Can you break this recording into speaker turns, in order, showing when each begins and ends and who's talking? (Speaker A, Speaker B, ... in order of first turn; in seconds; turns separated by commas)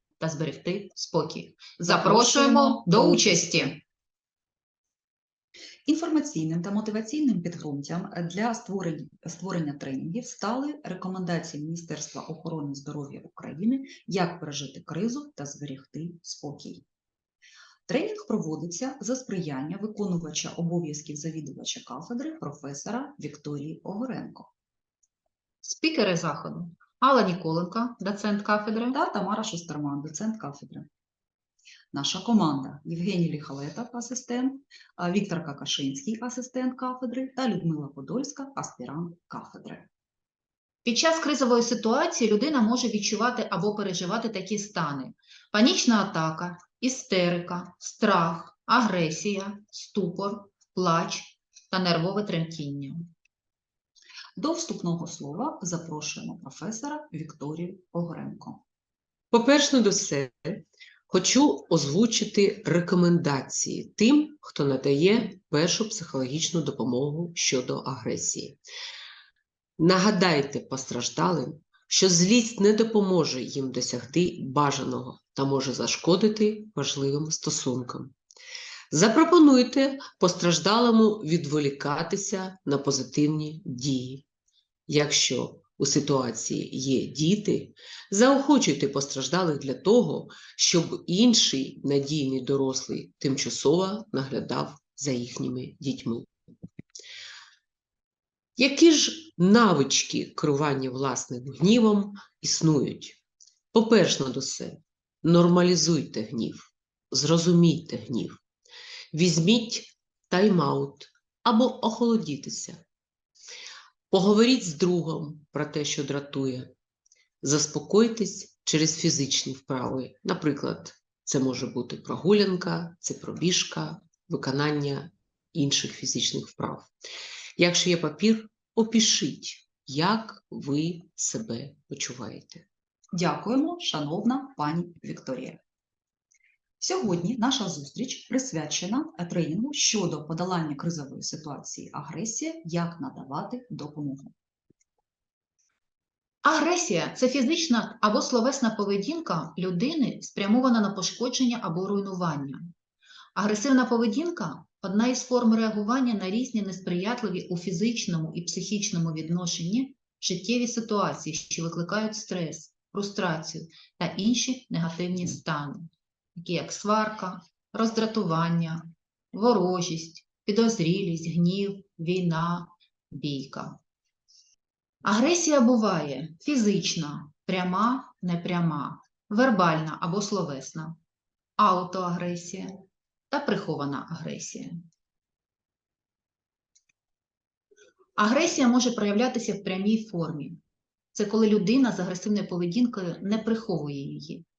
Speaker A: 0.2-3.8, Speaker B: 1.8-3.7, Speaker B: 5.9-16.8, Speaker B: 17.9-24.5, Speaker A: 25.6-29.0, Speaker B: 28.9-30.9, Speaker B: 31.9-39.9, Speaker A: 40.8-53.1, Speaker B: 54.4-58.6, Speaker C: 59.3-68.6, Speaker C: 69.8-78.1, Speaker C: 78.9-84.2, Speaker C: 84.9-96.3, Speaker C: 98.6-103.2, Speaker C: 103.7-108.4, Speaker C: 109.1-112.8, Speaker C: 114.1-116.7, Speaker C: 117.4-126.9, Speaker C: 127.6-132.7, Speaker B: 133.1-135.6, Speaker B: 136.8-144.3, Speaker A: 146.4-152.7, Speaker A: 153.3-173.8, Speaker A: 175.0-181.0, Speaker A: 181.6-184.8, Speaker A: 188.2-190.6, Speaker A: 191.1-194.4